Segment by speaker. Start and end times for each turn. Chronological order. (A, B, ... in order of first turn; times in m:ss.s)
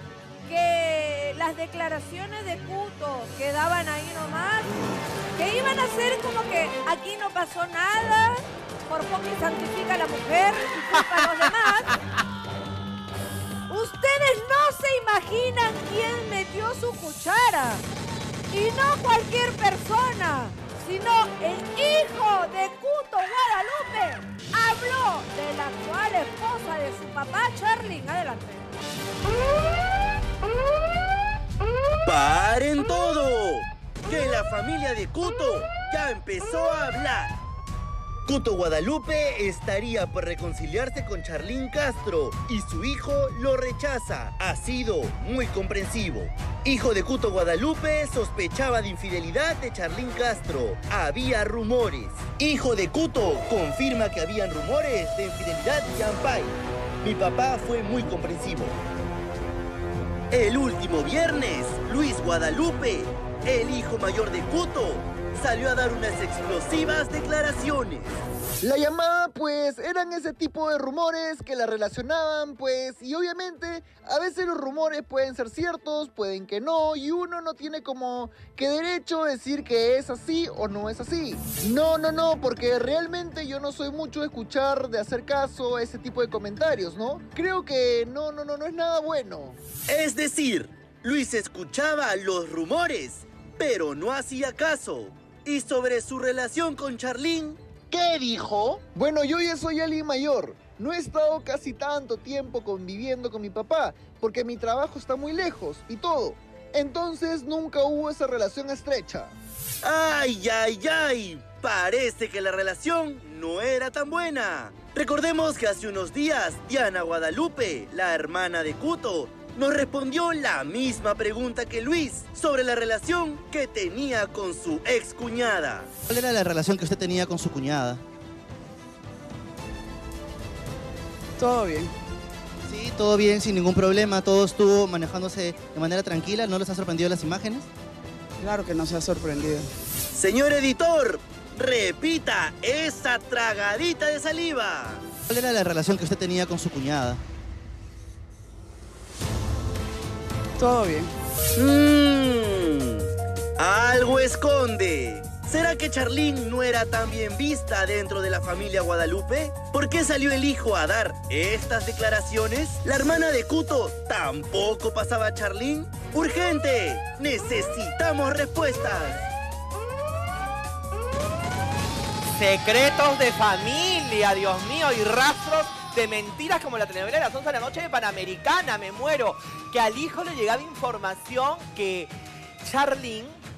0:00.4-0:11.9 A
0:13.7-0:17.8 A
0:18.5-0:28.7 A
0:32.0-0:37.3 B
0:38.2-0:58.8 B
1:00.3-1:08.2 B
1:08.6-1:29.6 C
1:29.9-1:38.8 B
1:38.8-1:49.3 C
1:49.8-2:05.9 B
2:06.1-2:08.0 D
2:11.4-2:11.9 E
2:12.7-2:17.7 D
2:18.4-2:19.7 E
2:20.1-2:25.0 B
2:25.3-2:27.2 D
2:30.6-2:31.1 E
2:31.6-2:33.0 B
2:33.6-2:49.3 B
2:52.2-3:03.4 F